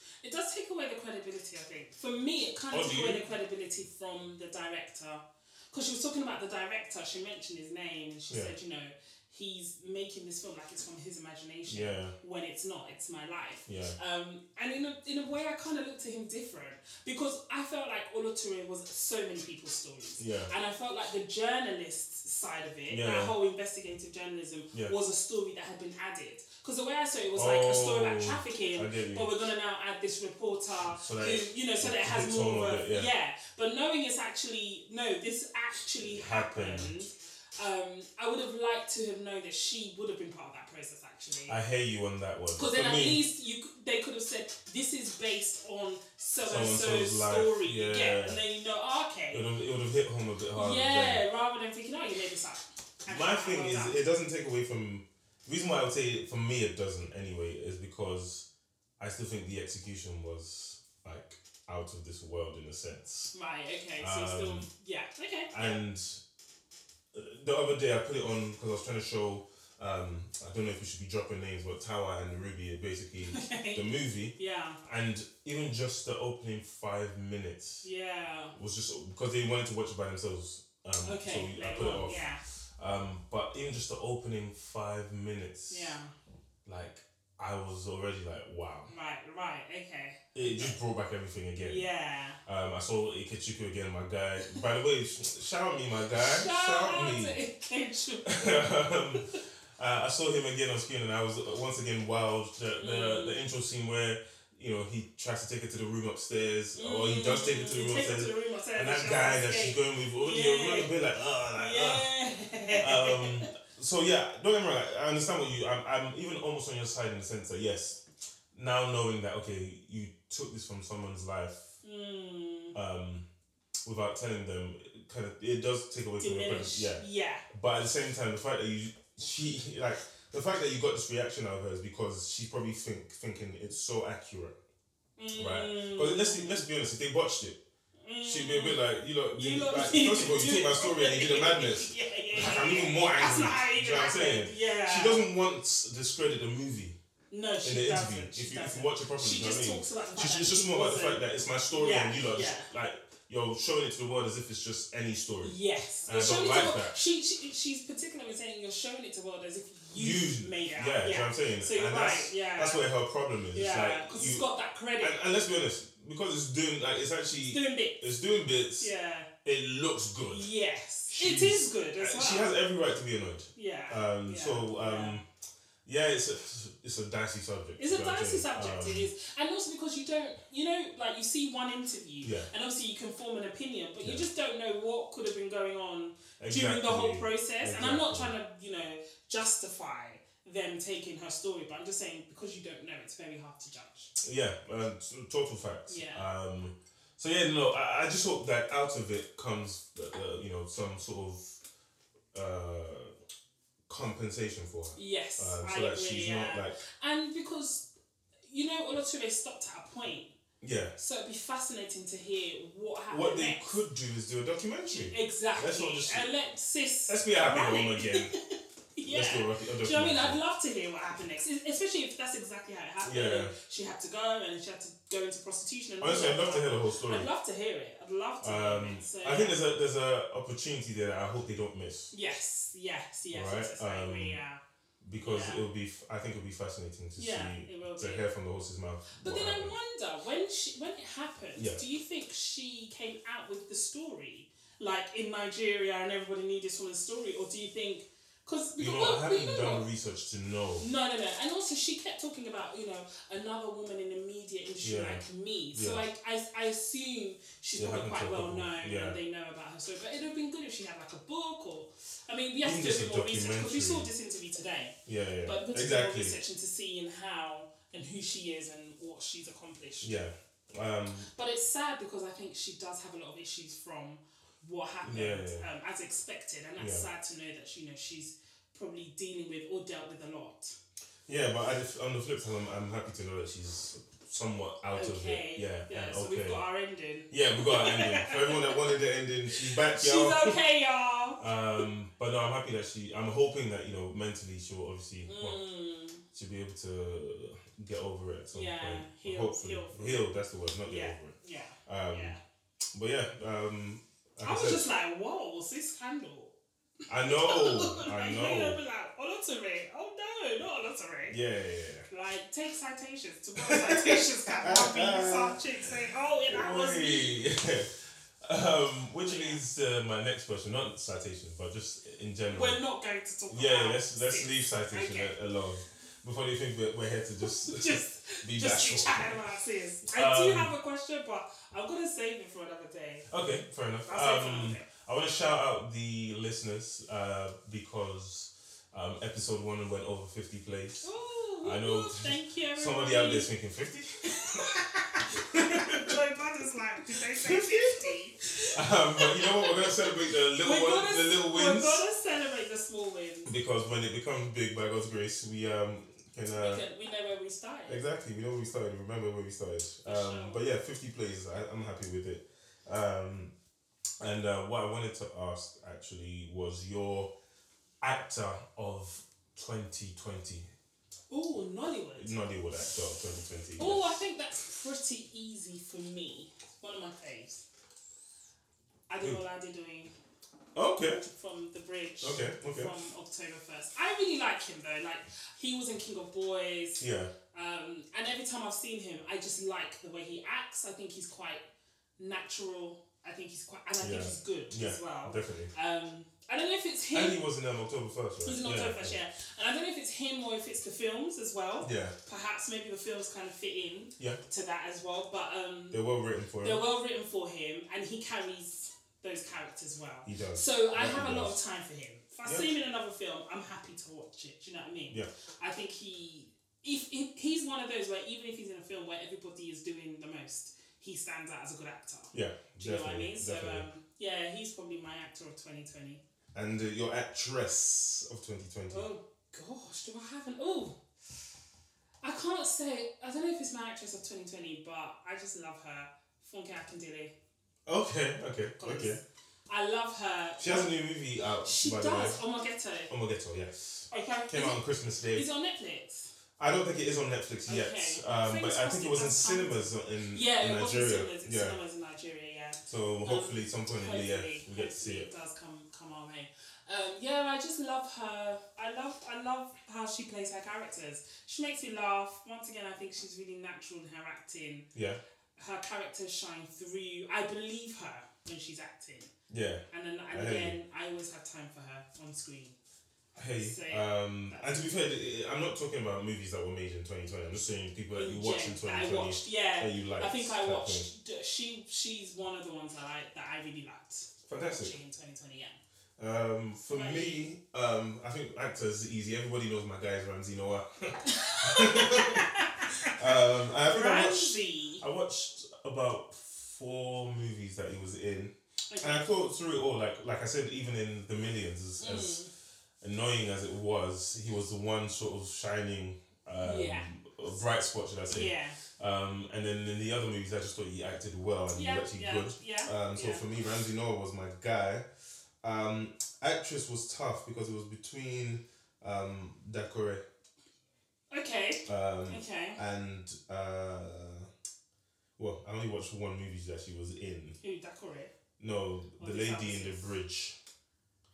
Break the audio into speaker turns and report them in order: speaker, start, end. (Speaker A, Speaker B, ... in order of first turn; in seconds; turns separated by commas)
Speaker A: 0.2-41.6, Speaker B: 2.7-3.2, Speaker B: 8.3-8.5, Speaker B: 11.7-12.1, Speaker B: 13.7-13.9, Speaker B: 20.2-20.5, Speaker B: 22.9-23.3, Speaker B: 27.3-29.3, Speaker B: 30.9-33.1, Speaker B: 36.0-37.0, Speaker B: 41.5-43.2, Speaker A: 42.5-49.5, Speaker B: 46.4-48.4, Speaker B: 49.3-51.2, Speaker A: 50.5-54.0, Speaker B: 53.1-58.5, Speaker B: 59.0-63.3, Speaker A: 63.3-65.8, Speaker B: 64.0-64.7, Speaker B: 65.5-66.2, Speaker B: 67.1-77.9, Speaker A: 73.3-74.8, Speaker A: 77.8-78.5, Speaker B: 78.5-85.9, Speaker A: 81.0-82.4, Speaker A: 85.7-86.1, Speaker B: 86.7-88.9, Speaker A: 88.9-90.8, Speaker B: 90.3-91.8, Speaker A: 91.6-92.4, Speaker B: 92.5-97.4, Speaker A: 96.1-99.4, Speaker B: 98.2-112.1, Speaker A: 102.8-103.4, Speaker A: 106.7-110.9, Speaker A: 111.5-113.5, Speaker B: 112.8-118.0, Speaker B: 118.5-121.7, Speaker A: 121.8-122.7, Speaker B: 122.7-123.3, Speaker B: 123.8-134.6, Speaker A: 126.2-127.4, Speaker A: 135.2-136.6, Speaker B: 135.3-137.6, Speaker A: 138.0-138.8, Speaker B: 138.2-146.9, Speaker A: 139.3-145.2, Speaker A: 147.3-152.7, Speaker B: 147.6-156.9, Speaker A: 155.4-162.9, Speaker B: 159.9-164.4, Speaker A: 163.5-165.2, Speaker B: 165.0-168.9, Speaker A: 167.5-168.0, Speaker A: 168.8-169.3, Speaker B: 169.4-170.5, Speaker A: 170.2-172.6, Speaker B: 171.1-175.2, Speaker A: 173.5-175.2, Speaker B: 175.8-179.1, Speaker A: 177.8-194.1, Speaker B: 182.2-182.5, Speaker B: 186.4-188.3, Speaker B: 194.2-201.6, Speaker A: 195.9-196.2, Speaker B: 202.3-203.1, Speaker B: 203.9-206.7, Speaker A: 204.9-207.8, Speaker A: 208.4-210.3, Speaker B: 210.6-210.9, Speaker A: 211.0-213.7, Speaker B: 213.1-216.3, Speaker A: 214.9-229.6, Speaker B: 217.1-218.3, Speaker B: 219.0-220.4, Speaker B: 223.0-223.5, Speaker B: 226.0-227.3, Speaker B: 228.4-232.1, Speaker A: 232.1-234.6, Speaker B: 233.3-234.4, Speaker B: 235.0-239.7, Speaker A: 235.2-235.7, Speaker A: 237.2-238.2, Speaker A: 239.2-249.8, Speaker B: 241.6-241.8, Speaker B: 248.8-250.9, Speaker A: 250.8-270.2, Speaker B: 254.8-256.0, Speaker B: 257.8-259.2, Speaker B: 262.6-264.1, Speaker B: 265.1-266.4, Speaker B: 270.0-271.3, Speaker A: 271.3-280.8, Speaker B: 275.0-275.6, Speaker B: 276.8-277.1, Speaker B: 281.3-286.6, Speaker A: 284.9-288.9, Speaker B: 287.3-290.6, Speaker A: 289.5-291.8, Speaker B: 291.4-295.6, Speaker A: 295.3-296.2, Speaker B: 296.3-301.3, Speaker A: 298.5-300.3, Speaker A: 300.8-302.4, Speaker B: 301.9-302.4, Speaker B: 302.9-304.9, Speaker A: 304.4-306.5, Speaker B: 307.1-308.8, Speaker A: 307.2-311.4, Speaker B: 311.3-312.1, Speaker A: 312.1-317.4, Speaker B: 313.6-315.6, Speaker B: 316.5-322.8, Speaker A: 319.2-319.6, Speaker A: 322.5-325.3, Speaker B: 323.5-329.4, Speaker A: 327.4-333.3, Speaker B: 330.1-330.7, Speaker B: 333.3-341.1, Speaker A: 334.1-334.8, Speaker A: 341.0-343.5, Speaker B: 341.6-344.7, Speaker A: 344.3-353.5, Speaker B: 345.4-346.1, Speaker B: 347.3-348.1, Speaker B: 348.7-352.0, Speaker B: 353.4-356.8, Speaker A: 356.6-358.0, Speaker B: 357.9-363.5, Speaker A: 360.0-360.6, Speaker B: 364.2-367.3, Speaker B: 368.0-370.7, Speaker A: 371.3-372.3, Speaker B: 372.1-374.2, Speaker A: 373.8-377.6, Speaker A: 379.1-380.1, Speaker B: 380.7-381.2, Speaker A: 381.2-391.6, Speaker B: 382.2-382.9, Speaker B: 387.0-387.3, Speaker A: 392.2-397.4, Speaker B: 394.0-395.7, Speaker B: 397.1-399.2, Speaker A: 398.4-406.0, Speaker B: 401.8-402.1, Speaker B: 405.9-406.8, Speaker A: 406.6-426.2, Speaker B: 410.2-411.6, Speaker B: 412.4-412.7, Speaker B: 422.3-423.9, Speaker B: 426.5-429.1, Speaker A: 428.9-431.0, Speaker A: 432.2-437.3, Speaker B: 437.9-439.2, Speaker A: 438.8-441.0, Speaker B: 440.6-442.4, Speaker A: 441.6-443.1, Speaker B: 443.1-445.4, Speaker A: 444.1-444.8, Speaker A: 445.3-446.3, Speaker B: 446.6-451.8, Speaker A: 447.7-464.9, Speaker B: 452.9-455.3, Speaker B: 464.9-465.2, Speaker A: 465.6-469.3, Speaker B: 469.5-470.8, Speaker A: 469.9-472.8, Speaker B: 473.4-481.1, Speaker A: 473.6-474.9, Speaker A: 478.1-485.8, Speaker B: 484.5-484.9, Speaker B: 486.2-502.4, Speaker A: 486.9-487.4, Speaker A: 491.2-495.0, Speaker A: 498.9-499.3, Speaker A: 502.0-502.5, Speaker B: 503.0-515.0, Speaker A: 506.6-507.1, Speaker A: 508.3-508.8, Speaker A: 511.7-513.4, Speaker B: 515.6-520.2, Speaker A: 521.3-522.8, Speaker B: 521.9-524.5, Speaker B: 525.4-527.5, Speaker A: 527.6-528.3, Speaker B: 528.6-530.5, Speaker A: 529.2-530.1